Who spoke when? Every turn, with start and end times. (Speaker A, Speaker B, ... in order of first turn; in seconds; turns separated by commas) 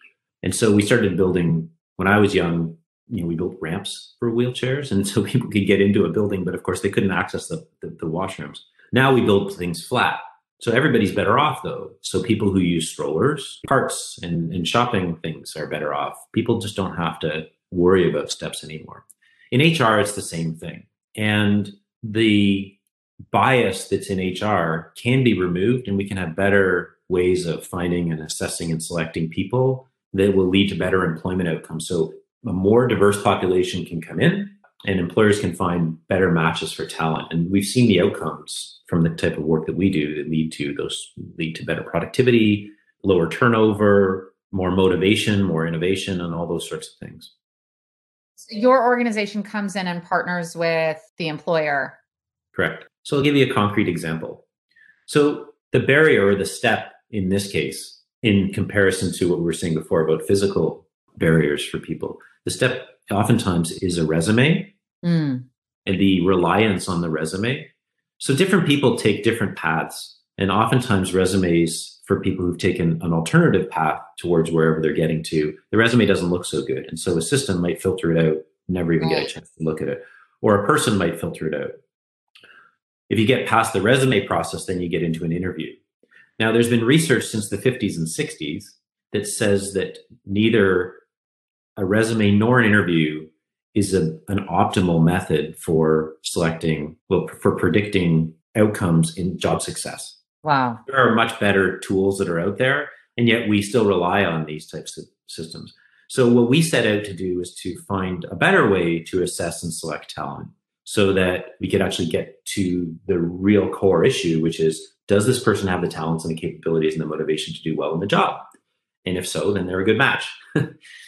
Speaker A: 0.4-22.8, Speaker A: 23.3-47.3, Speaker B: 48.4-52.0, Speaker A: 52.5-54.4, Speaker A: 55.1-64.7, Speaker B: 65.0-65.5, Speaker A: 65.8-81.7, Speaker B: 79.0-79.3, Speaker A: 83.1-85.8, Speaker A: 86.4-91.0, Speaker A: 91.8-100.2, Speaker B: 100.4-100.8, Speaker A: 100.8-118.5, Speaker A: 119.0-120.7